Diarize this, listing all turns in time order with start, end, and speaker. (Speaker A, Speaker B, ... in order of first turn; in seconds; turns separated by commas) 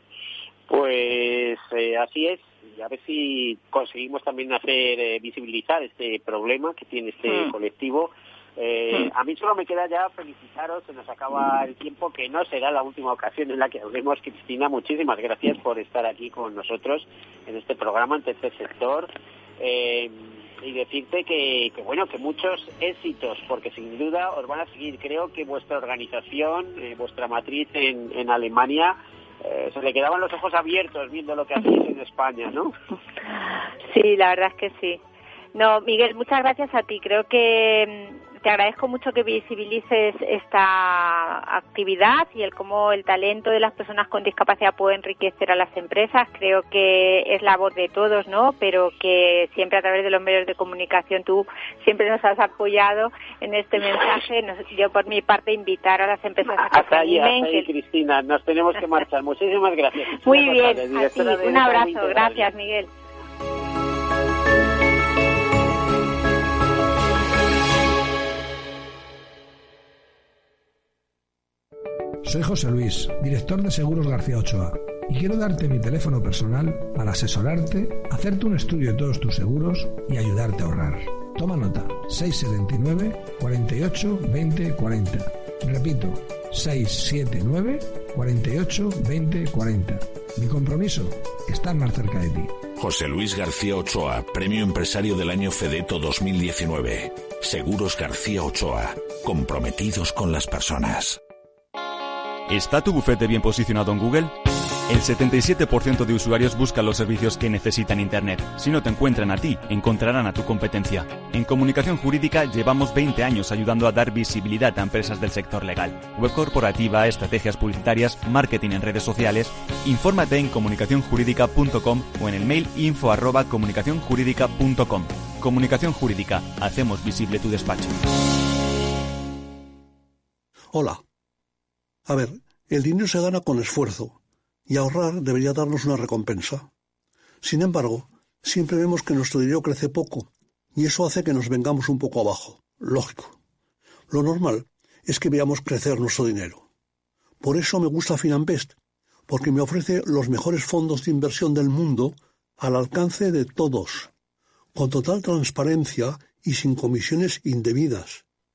Speaker A: 0.7-32.7, Speaker B: 33.9-35.0, Speaker B: 35.5-57.7, Speaker A: 56.5-62.5, Speaker B: 60.2-62.9, Speaker C: 72.2-92.6, Speaker D: 92.8-101.2, Speaker E: 102.5-104.3, Speaker E: 104.9-128.1, Speaker F: 130.7-131.0, Speaker F: 132.1-134.2, Speaker F: 134.7-136.7, Speaker F: 137.4-143.3, Speaker F: 144.1-146.6, Speaker F: 147.4-148.7, Speaker F: 149.3-154.1, Speaker F: 154.7-158.2